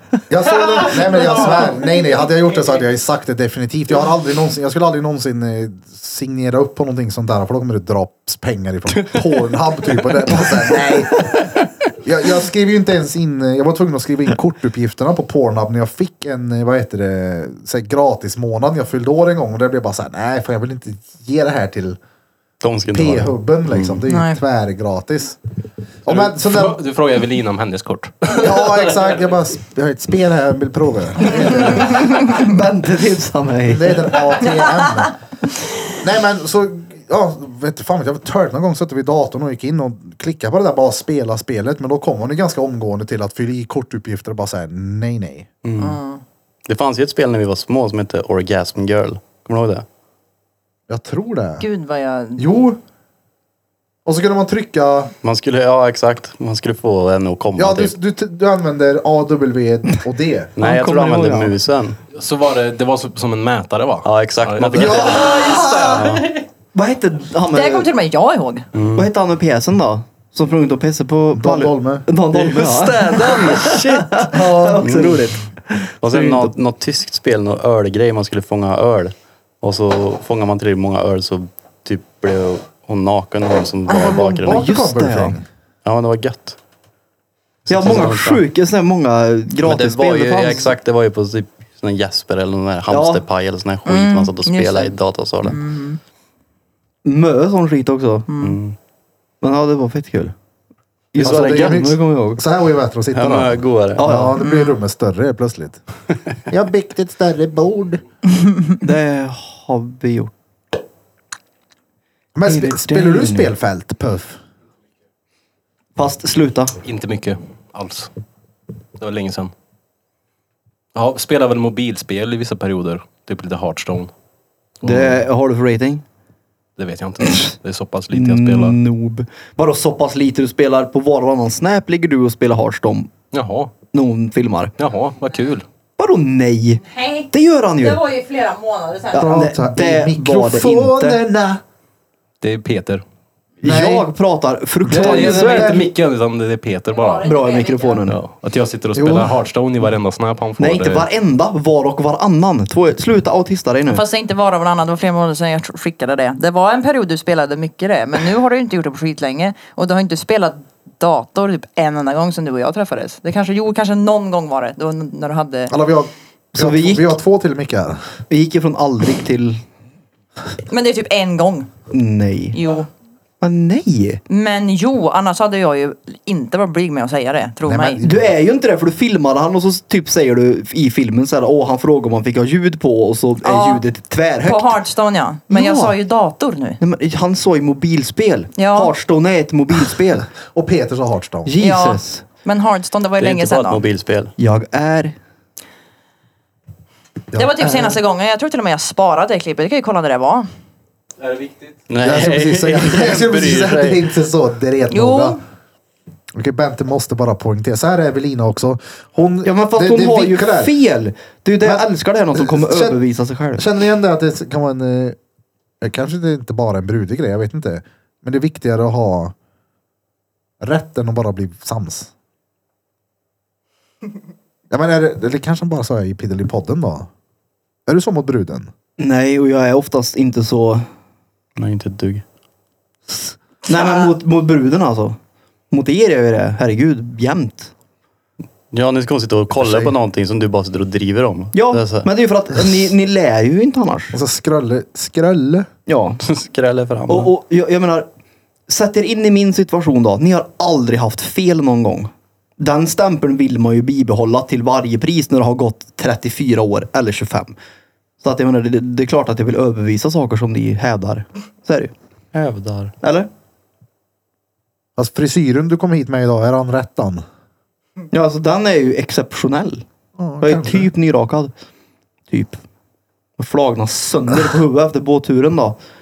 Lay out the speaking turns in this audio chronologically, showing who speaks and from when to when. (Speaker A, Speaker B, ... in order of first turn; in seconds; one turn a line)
Speaker A: 0.3-11.5
Speaker A: 12.0-22.0
Speaker B: 22.6-24.0
Speaker A: 22.9-25.4
Speaker C: 24.1-24.4
Speaker A: 26.0-26.8
Speaker D: 26.1-29.1
Speaker A: 28.3-32.1
Speaker E: 31.2-34.2
Speaker A: 33.6-35.1
Speaker C: 34.4-34.9
Speaker A: 36.0-45.5
Speaker B: 45.6-46.0
Speaker C: 45.8-46.2
Speaker B: 46.6-49.8
Speaker A: 50.9-51.6
Speaker C: 51.6-52.4
Speaker A: 52.4-52.8
Speaker A: 54.0-55.1
Speaker B: 55.2-57.9
Speaker A: 57.5-60.5
Speaker B: 60.6-62.0
Speaker E: 60.6-61.5
Speaker D: 62.1-66.4
Speaker B: 64.0-66.2
Speaker A: 64.8-66.2
Speaker E: 66.7-67.9
Speaker C: 67.5-68.6
Speaker B: 68.7-69.1
Speaker E: 68.9-76.5
Speaker A: 71.3-72.1
Speaker B: 72.3-75.3
Speaker A: 74.3-74.9
Speaker B: 76.0-84.7
Speaker A: 83.9-85.5
Speaker E: 84.4-85.3
Speaker B: 85.8-86.6
Speaker B: 87.7-88.4
Speaker E: 87.7-90.7
Speaker B: 89.6-95.6
Speaker E: 92.9-93.2
Speaker C: 93.8-96.0
Speaker E: 97.0-98.3
Speaker C: 98.3-98.6
Speaker B: 98.4-98.8
Speaker E: 99.4-100.3
Speaker E: 101.1-102.4
Speaker B: 101.2-101.9
Speaker A: 101.2-105.8
Speaker B: 103.1-104.1
Speaker E: 104.0-104.4
Speaker C: 104.4-104.8
Speaker A: 106.5-108.0
Speaker E: 108.8-110.3
Speaker A: 112.3-114.4
Speaker E: 112.5-113.5
Speaker E: 116.0-116.8
Speaker D: 116.8-118.1
Speaker D: 119.0-119.5
Speaker D: 120.9-124.1
Speaker D: 124.8-125.2
Speaker E: 124.8-126.0
Speaker D: 126.8-128.8
Speaker E: 128.1-133.1
Speaker D: 133.3-133.7
Speaker E: 133.9-134.7
Speaker D: 134.8-135.6
Speaker E: 136.0-138.0
Speaker C: 136.8-139.4
Speaker E: 139.1-141.2
Speaker A: 139.1-141.6
Speaker D: 142.4-143.0
Speaker E: 143.6-145.8
Speaker A: 143.6-144.1
Speaker A: 144.8-145.9
Speaker D: 144.8-147.2
Speaker C: 146.9-148.0
Speaker E: 147.2-148.2
Speaker D: 148.1-151.1
Speaker A: 148.9-149.3
Speaker E: 150.6-154.0
Speaker C: 153.9-165.7
Speaker A: 165.7-168.1
Speaker E: 166.5-167.1
Speaker E: 168.3-169.6
Speaker C: 170.7-171.7
Speaker E: 171.9-172.6
Speaker C: 172.5-172.9
Speaker E: 173.4-174.2
Speaker C: 174.3-178.0
Speaker A: 177.6-178.3
Speaker E: 178.0-184.8
Speaker C: 183.4-183.8
Speaker C: 184.4-186.8
Speaker E: 185.5-185.9
Speaker E: 186.8-190.3
Speaker C: 188.6-188.9
Speaker A: 190.4-191.6
Speaker E: 191.4-192.2
Speaker C: 191.6-193.8
Speaker B: 193.2-194.3
Speaker E: 194.4-195.2
Speaker A: 197.3-197.9
Speaker C: 197.3-200.5
Speaker D: 201.2-201.9
Speaker B: 201.9-204.1
Speaker A: 202.0-205.4
Speaker C: 204.9-205.4
Speaker A: 206.3-210.7
Speaker E: 209.4-213.6
Speaker A: 211.6-213.0
Speaker A: 213.6-215.2
Speaker A: 215.8-219.3
Speaker A: 220.6-222.1
Speaker A: 224.7-227.1
Speaker A: 227.9-228.7
Speaker E: 229.0-230.9
Speaker B: 231.6-232.2
Speaker E: 233.2-235.2
Speaker E: 235.7-237.7
Speaker B: 238.7-242.1
Speaker A: 239.6-239.9
Speaker E: 241.5-244.2
Speaker A: 244.1-245.7
Speaker E: 245.9-246.2
Speaker B: 246.2-247.3
Speaker E: 247.1-248.1
Speaker E: 248.7-257.6
Speaker E: 258.2-261.9
Speaker B: 262.3-262.9
Speaker E: 263.0-263.3
Speaker A: 265.0-267.2
Speaker E: 268.1-269.8
Speaker A: 270.2-270.9
Speaker E: 270.4-271.5
Speaker E: 272.3-272.6
Speaker E: 273.4-275.8